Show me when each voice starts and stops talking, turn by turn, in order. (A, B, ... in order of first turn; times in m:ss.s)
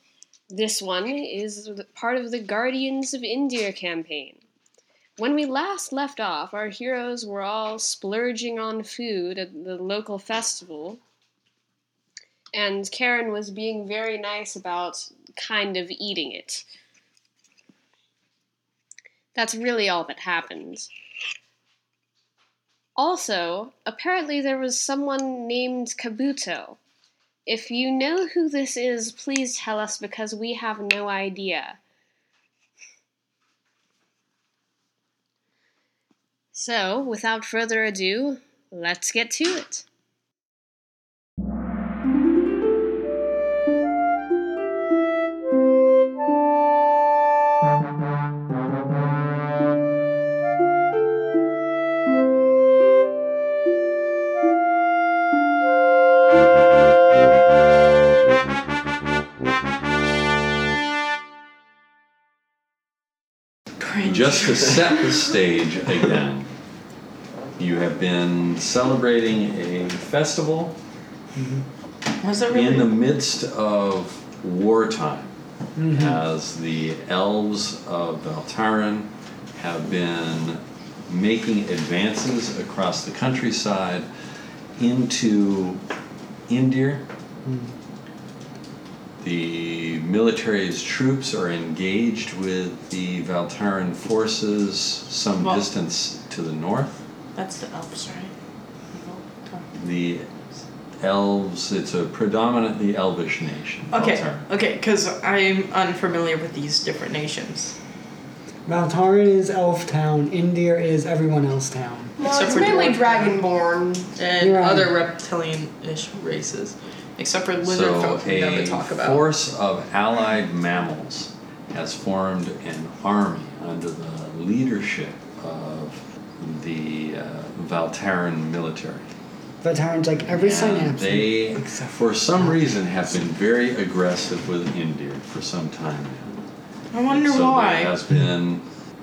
0:00.5-0:04.4 A
0:05.2-0:11.0 A
0:12.5-0:16.6 A
0:19.3-0:20.9 A
0:23.0-0:26.8 A
0:27.5-0:31.8 A
0:36.5-0:39.8 A
1:03.8-1:05.2 B
1:04.0-1:06.5 C
1:07.6-1:10.8 C
1:11.4-1:11.6 D
1:12.2-1:13.0 B
1:12.5-1:15.3 C
1:15.8-1:16.2 D
1:15.9-1:24.1 C
1:24.8-1:25.8 C
1:26.5-1:27.0 C
1:27.4-1:27.7 D
1:29.2-1:37.0 C
1:35.4-1:35.6 B
1:37.3-1:38.3 B
1:38.9-1:39.7 B
1:39.7-1:40.3 C
1:41.0-1:44.4 C
1:43.9-1:47.8 B
1:48.7-1:52.2 D
1:52.2-1:54.1 E
1:52.2-1:53.4 B
1:54.2-1:59.2 B
1:54.4-1:54.9 D
1:57.6-2:09.1 C
2:09.6-2:12.6 D
2:10.3-2:16.4 C
2:16.9-2:17.9 B
2:17.1-2:18.6 C